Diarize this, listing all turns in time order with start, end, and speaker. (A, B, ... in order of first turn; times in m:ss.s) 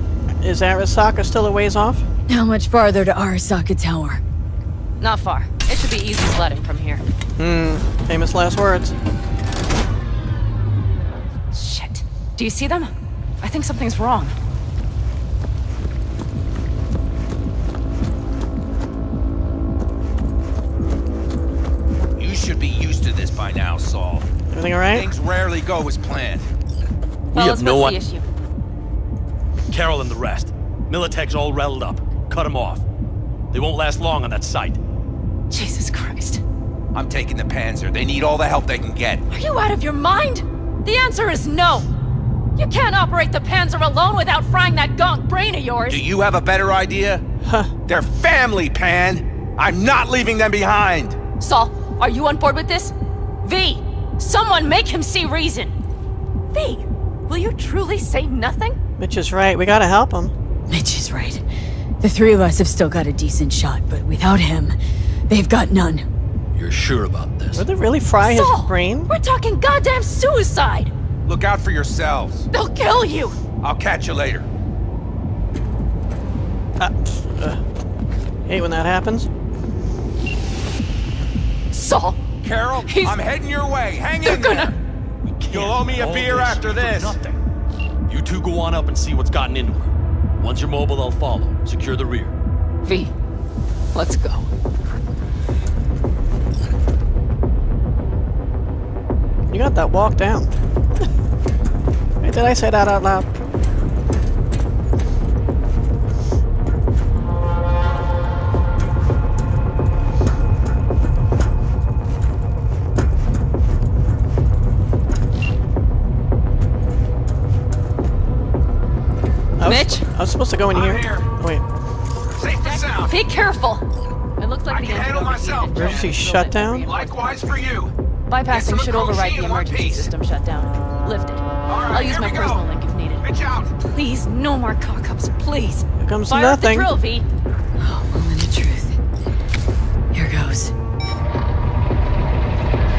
0:00.4-0:02.1 A
0:02.3-0:04.2 B
0:05.0-0:07.0 C
0:07.4-0:08.9 A
0:11.5-0:14.3 C
0:22.2-0:24.3 D
0:24.5-0:25.1 A
0:24.9-0:26.5 D
0:27.3-0:28.0 E
0:27.3-0:28.2 C
0:29.7-0:32.8 E
0:33.5-0:34.8 E
0:35.5-0:36.4 C
0:36.9-0:39.2 D
0:39.3-0:41.9 C
0:42.6-0:46.0 C
0:45.9-0:47.2 D
0:47.4-0:47.7 A
0:47.9-0:51.2 D
0:51.4-0:55.7 C
0:56.5-0:58.8 C
0:59.0-1:00.3 A
1:00.7-1:01.4 B
1:02.0-1:04.8 B
1:05.3-1:06.0 B
1:06.5-1:07.6 E
1:07.5-1:09.1 A
1:08.2-1:10.9 C
1:11.2-1:12.5 D
1:12.5-1:13.4 C
1:13.6-1:14.5 D
1:16.8-1:17.6 A
1:18.4-1:19.3 A
1:21.7-1:22.2 C
1:22.4-1:24.8 D
1:22.8-1:23.2 C
1:24.2-1:24.7 C
1:25.2-1:27.4 E
1:25.5-1:27.2 D
1:28.1-1:32.3 E
1:32.8-1:33.1 C
1:33.9-1:34.5 C
1:39.5-1:40.5 A
1:42.2-1:43.3 A
1:59.6-2:01.6 A
1:59.6-2:00.0 C
2:00.7-2:01.3 D
2:02.4-2:03.1 D
2:02.6-2:03.8 C
2:04.4-2:07.5 C
2:04.7-2:06.1 D
2:05.7-2:06.9 A
2:06.8-2:07.9 D
2:08.3-2:13.2 C
2:08.5-2:10.1 D
2:11.7-2:12.6 D
2:13.2-2:13.7 D
2:13.8-2:17.2 C
2:16.0-2:16.9 A
2:17.8-2:19.0 B
2:20.1-2:20.7 B